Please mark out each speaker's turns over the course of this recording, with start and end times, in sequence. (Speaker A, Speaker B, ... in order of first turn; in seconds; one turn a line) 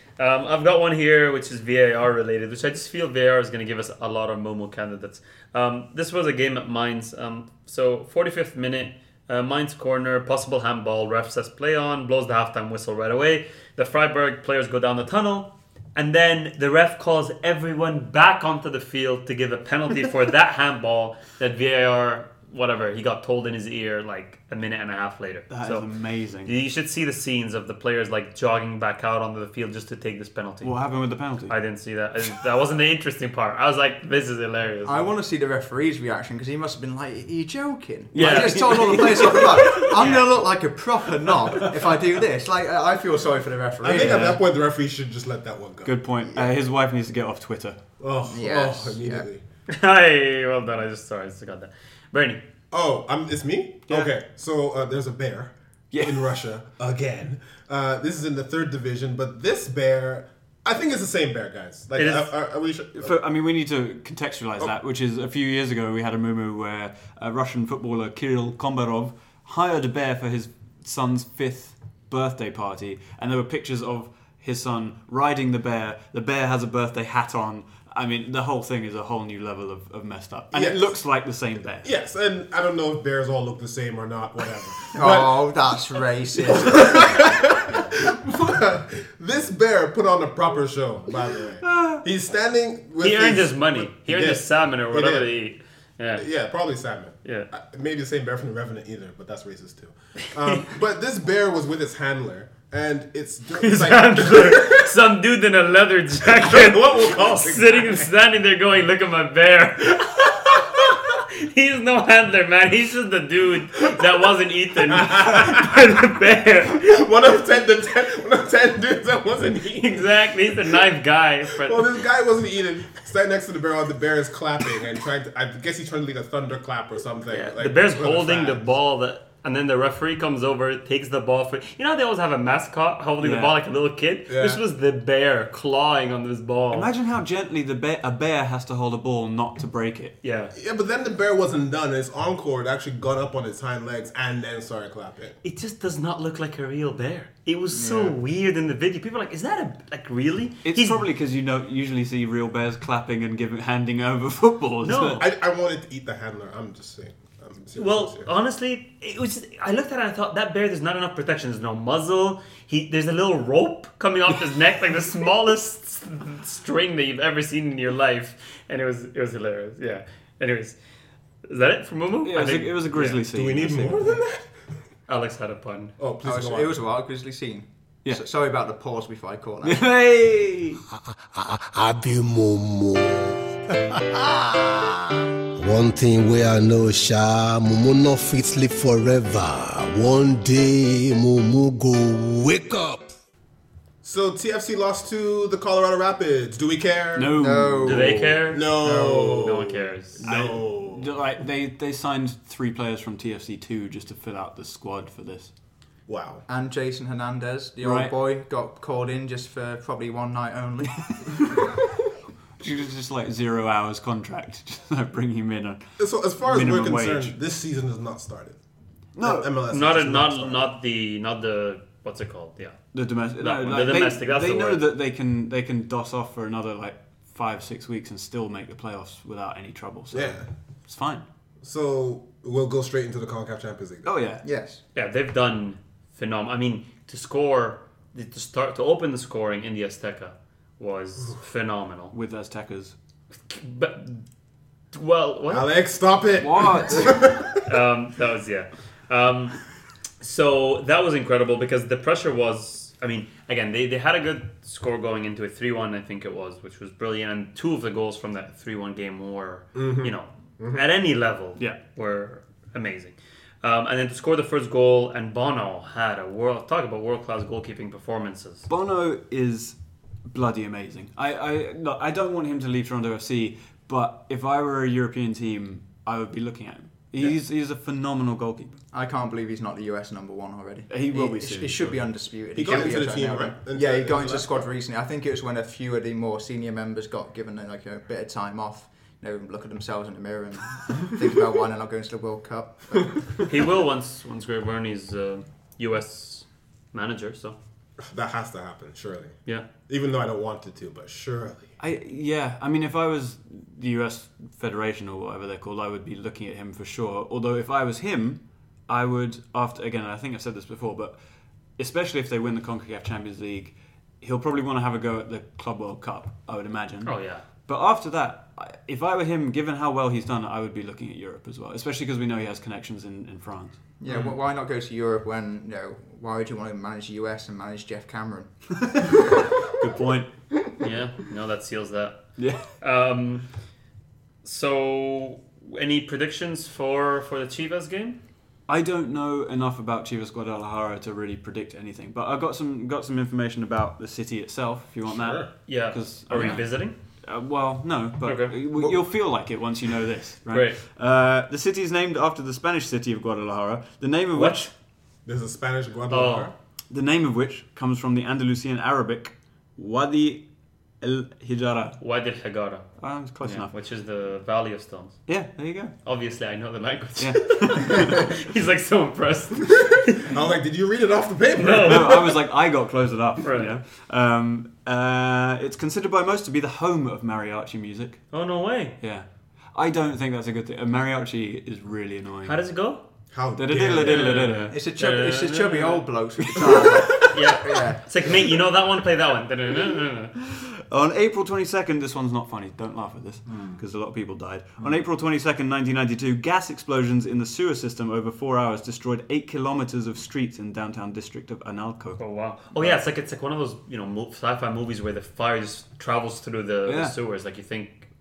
Speaker A: 0.2-25.9
Speaker B: 25.5-26.5
Speaker A: 26.4-30.8
Speaker B: 30.6-31.6
Speaker A: 31.5-35.1
Speaker C: 34.9-44.4
Speaker B: 38.1-40.0
Speaker A: 38.2-40.3
Speaker D: 43.8-46.0
Speaker B: 43.9-44.4
Speaker B: 45.8-47.8
Speaker D: 48.0-49.4
Speaker C: 48.3-49.3
Speaker A: 49.7-52.4
Speaker D: 52.7-63.2
Speaker B: 55.9-56.4
Speaker A: 62.0-62.3
Speaker B: 63.0-81.9
Speaker D: 80.5-81.0
Speaker D: 81.8-85.5
Speaker C: 85.0-87.4
Speaker D: 86.5-95.3
Speaker B: 91.6-92.0
Speaker A: 93.0-96.3
Speaker D: 96.2-104.9
Speaker A: 97.2-97.5
Speaker A: 103.6-117.0
Speaker D: 106.4-108.1
Speaker D: 114.8-115.8
Speaker D: 116.8-120.8
Speaker A: 119.8-121.9
Speaker D: 121.6-128.8
Speaker A: 127.3-136.9
Speaker B: 133.2-133.6
Speaker D: 134.3-134.6
Speaker B: 136.7-140.2
Speaker A: 140.2-140.5
Speaker D: 140.6-145.4
Speaker A: 145.4-151.0
Speaker C: 147.7-148.2
Speaker B: 150.6-155.2
Speaker A: 154.8-155.2
Speaker D: 155.2-158.3
Speaker A: 157.8-170.8
Speaker A: 171.4-173.7
Speaker B: 172.2-174.1
Speaker D: 173.3-174.5
Speaker A: 175.1-175.9
Speaker D: 176.0-176.7
Speaker C: 176.2-179.9
Speaker B: 179.6-180.8
Speaker E: 181.1-193.1
Speaker D: 194.0-197.3
Speaker B: 197.2-198.3
Speaker C: 197.4-199.5
Speaker A: 197.8-200.2
Speaker D: 198.5-201.2
Speaker B: 200.2-205.5
Speaker D: 206.1-206.4
Speaker C: 206.5-211.6
Speaker B: 207.8-208.1
Speaker B: 212.6-217.4
Speaker D: 216.0-218.6
Speaker B: 219.1-219.5
Speaker D: 219.2-220.7
Speaker A: 219.7-224.8
Speaker B: 222.9-231.3
Speaker D: 230.1-230.5
Speaker D: 231.6-234.1
Speaker B: 234.0-234.4
Speaker C: 234.4-234.8
Speaker A: 234.9-242.1
Speaker B: 242.1-243.0
Speaker A: 243.5-244.2
Speaker A: 244.9-245.7
Speaker D: 245.5-247.7
Speaker B: 246.4-247.2
Speaker A: 247.7-249.6
Speaker A: 250.2-268.7
Speaker D: 259.8-260.8
Speaker B: 268.7-278.8
Speaker C: 278.9-293.3
Speaker B: 280.9-282.1
Speaker D: 282.6-284.6
Speaker A: 293.5-297.6
Speaker D: 298.1-301.7
Speaker B: 301.8-311.2
Speaker B: 311.8-323.8
Speaker A: 317.1-317.4
Speaker C: 324.0-328.5
Speaker A: 324.1-324.3
Speaker B: 328.8-329.2
Speaker B: 329.8-330.3
Speaker A: 330.8-333.5
Speaker B: 332.4-332.7
Speaker A: 334.4-338.2
Speaker B: 338.7-354.7
Speaker D: 345.1-345.5
Speaker A: 345.7-347.0
Speaker A: 348.2-348.6
Speaker A: 350.5-350.8
Speaker A: 354.4-354.7
Speaker D: 355.2-356.5
Speaker A: 356.1-356.5
Speaker B: 356.9-362.0
Speaker A: 362.0-365.3
Speaker B: 363.0-363.7
Speaker B: 365.3-365.9
Speaker A: 366.0-370.3
Speaker B: 367.2-368.2
Speaker D: 369.8-372.4
Speaker A: 371.6-372.2
Speaker B: 371.8-378.3
Speaker A: 373.4-373.7
Speaker A: 378.3-379.0
Speaker B: 379.0-382.6
Speaker A: 382.5-383.1
Speaker D: 383.3-384.5
Speaker B: 383.6-384.8
Speaker A: 384.1-386.1
Speaker C: 384.7-388.0
Speaker A: 387.3-390.3
Speaker B: 390.5-402.2
Speaker D: 393.5-393.8
Speaker A: 402.2-408.1
Speaker D: 402.8-403.0
Speaker B: 406.9-407.2